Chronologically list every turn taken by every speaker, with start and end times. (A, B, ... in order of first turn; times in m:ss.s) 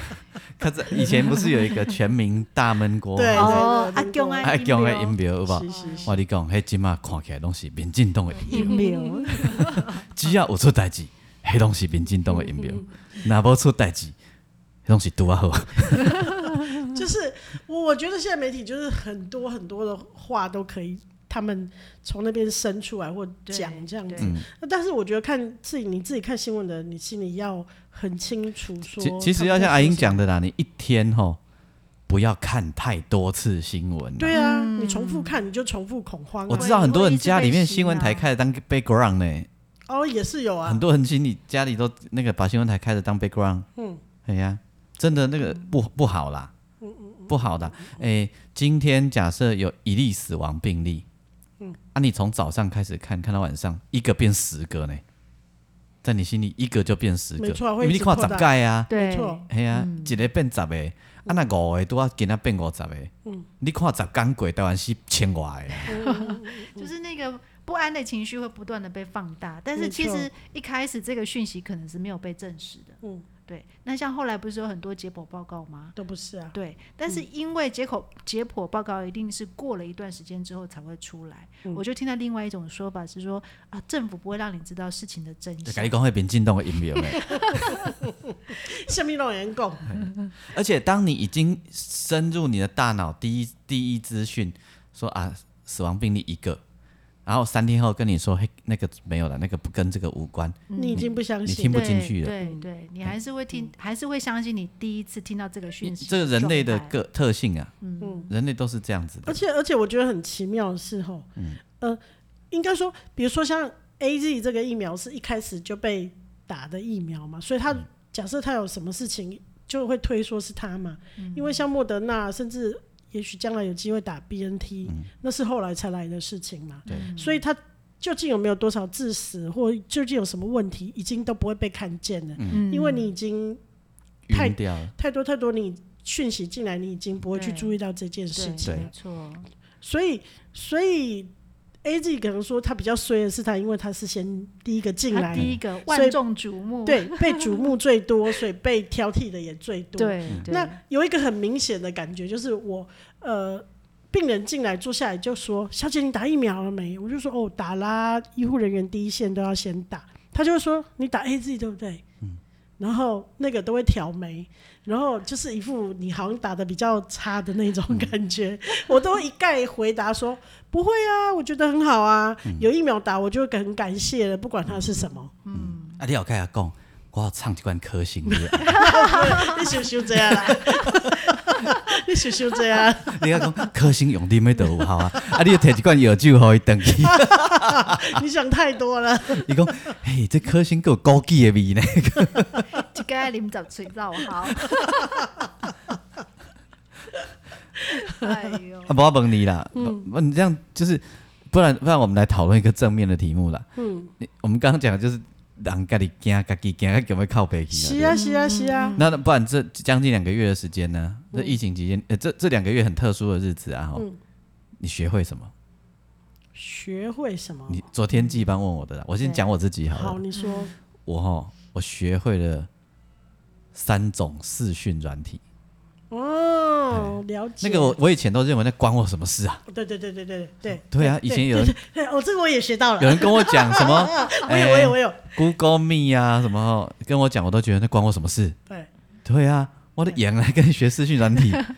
0:00.5-0:03.7 A
0:03.1-0:04.6 B
0:03.3-0:06.1 C
0:04.4-0:08.9 A
0:05.4-0:06.1 B
0:08.4-0:10.0 C
0:08.5-0:09.8 B
0:09.4-0:14.1 A
0:12.4-0:12.8 B
0:14.8-0:16.7 A
0:16.8-0:30.2 B
0:23.5-0:24.3 C
0:24.2-0:24.4 A
0:29.0-0:31.4 A
0:32.1-0:34.3 A
0:34.2-0:36.8 B
0:34.3-0:35.4 C
0:36.5-0:39.5 A
0:36.5-0:38.2 C
0:39.9-0:40.8 B
0:40.6-0:43.6 A
0:44.2-0:46.5 A
0:46.8-0:48.0 B
0:47.3-0:51.0 A
0:51.9-0:55.0 A
0:56.0-0:58.9 A
0:57.4-0:59.4 B
0:58.9-1:00.2 C
0:59.5-1:06.0 A
1:05.8-1:16.0 C
1:05.9-1:06.9 B
1:09.8-1:10.3 B
1:16.0-1:16.5 B
1:16.5-1:26.0 C
1:25.6-1:27.6 A
1:27.0-1:27.9 C
1:28.0-1:30.0 B
1:29.9-1:36.6 A
1:37.2-1:42.4 A
1:40.7-1:41.1 C
1:40.8-1:41.9 B
1:41.7-1:46.9 C
1:45.8-1:47.7 A
1:47.8-1:48.3 C
1:48.0-1:48.3 B
1:48.3-1:49.4 A
1:49.2-1:52.0 B
1:52.5-2:13.6 B
2:01.2-2:01.6 C
2:06.9-2:07.4 C
2:12.4-2:12.6 A
2:12.5-2:13.1 C
2:14.3-2:14.9 A
2:14.3-2:18.9 B
2:17.3-2:17.7 C
2:18.3-2:19.5 C
2:19.8-2:21.3 B
2:21.8-2:26.2 B
2:25.1-2:27.7 C
2:25.3-2:25.6 A
2:26.8-2:42.0 B
2:30.0-2:30.8 C
2:42.8-2:55.3 B
2:55.4-2:56.0 C
2:55.5-2:59.0 A
2:58.3-3:03.5 B
2:58.6-2:59.8 C
3:03.1-3:08.1 A
3:07.1-3:09.5 B
3:09.3-3:12.6 A
3:12.7-3:15.3 C
3:17.9-3:19.0 C
3:18.9-3:23.7 A
3:19.7-3:20.0 B
3:23.8-3:24.1 B
3:24.2-3:28.2 A
3:27.7-3:29.0 B
3:28.1-3:29.1 C
3:29.0-3:34.0 A
3:34.8-3:35.5 A
3:36.5-3:37.8 B
3:37.7-3:40.2 A
3:39.9-3:40.7 B
3:40.3-3:40.7 C
3:41.0-3:42.7 A
3:43.7-3:45.4 A
3:46.1-3:48.0 B
3:46.9-3:49.6 A
3:49.7-3:55.3 B
3:50.8-3:51.7 A
3:53.0-3:58.6 A
3:59.2-4:01.7 A